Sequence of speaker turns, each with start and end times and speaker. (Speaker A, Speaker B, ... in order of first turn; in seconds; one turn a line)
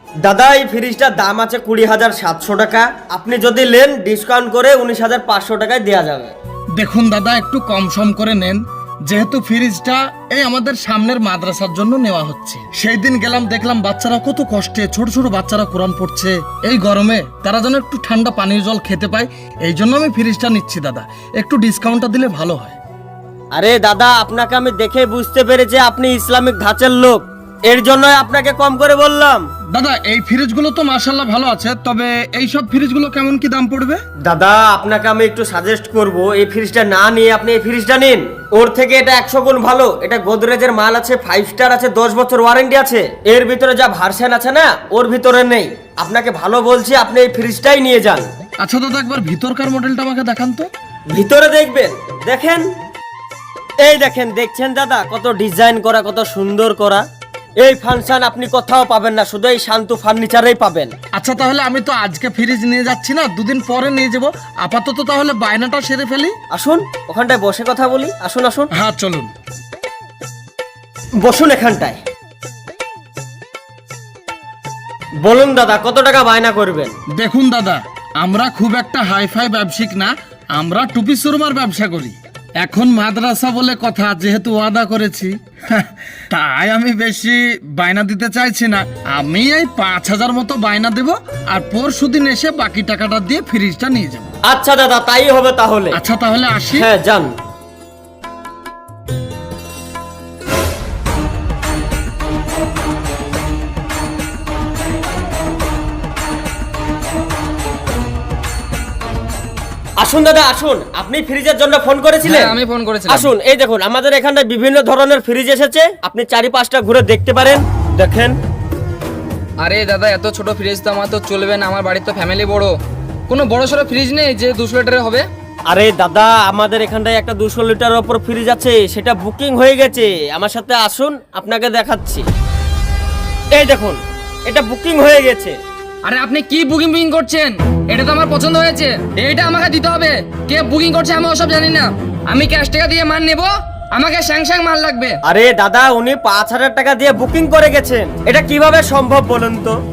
Speaker A: 0.2-6.3
Speaker B: 6.8-22.8
Speaker A: 23.6-29.5
Speaker B: 29.7-34.0
Speaker A: 34.2-48.3
Speaker B: 48.6-50.7
Speaker A: 51.1-52.7
Speaker A: 53.8-57.0
Speaker A: 57.6-60.9
Speaker B: 61.1-66.3
Speaker A: 66.5-68.7
Speaker B: 68.7-69.3
Speaker A: 71.2-72.0
Speaker A: 75.2-76.9
Speaker B: 77.2-94.3
Speaker A: 94.5-96.0
Speaker B: 95.9-96.9
Speaker A: 96.8-97.3
Speaker A: 110.0-112.5
Speaker C: 112.2-113.3
Speaker A: 113.1-118.4
Speaker C: 119.6-122.7
Speaker C: 123.3-125.3
Speaker A: 125.7-132.2
Speaker A: 133.5-135.6
Speaker C: 136.1-145.2
Speaker A: 145.3-149.8